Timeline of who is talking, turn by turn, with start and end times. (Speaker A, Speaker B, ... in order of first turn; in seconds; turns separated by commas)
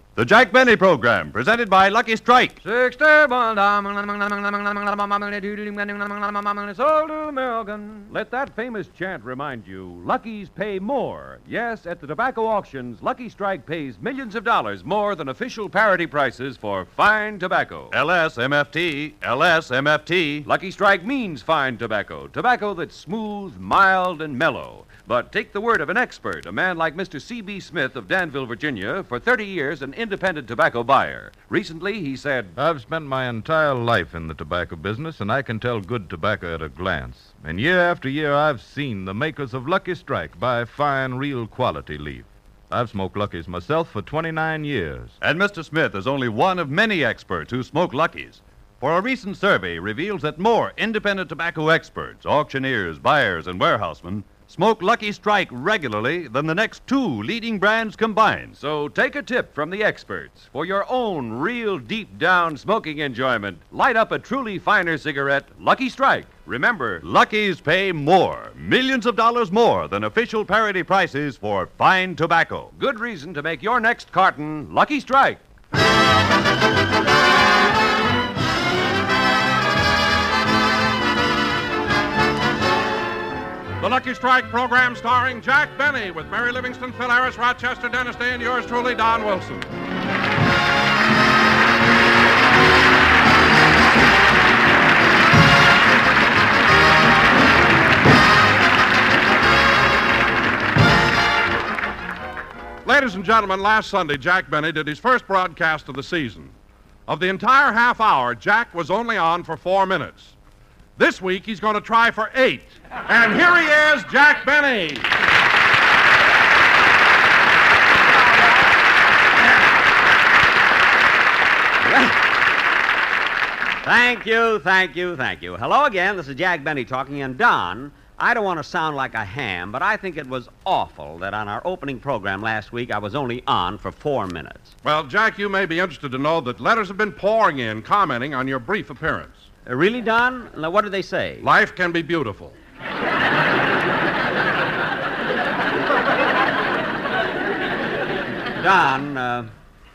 Speaker A: 0.2-2.6, Speaker B: 2.6-18.0, Speaker A: 17.9-20.4, Speaker B: 20.4-32.5, Speaker C: 32.6-45.2, Speaker A: 45.2-58.5, Speaker B: 58.6-67.1, Speaker A: 67.0-72.7, Speaker B: 72.8-75.4, Speaker D: 83.8-89.7, Speaker D: 102.8-106.6, Speaker D: 107.1-110.4, Speaker D: 111.0-115.1, Speaker E: 121.8-122.2, Speaker E: 123.8-134.7, Speaker D: 134.8-139.5, Speaker E: 139.7-141.5, Speaker D: 141.4-142.6, Speaker E: 148.6-149.5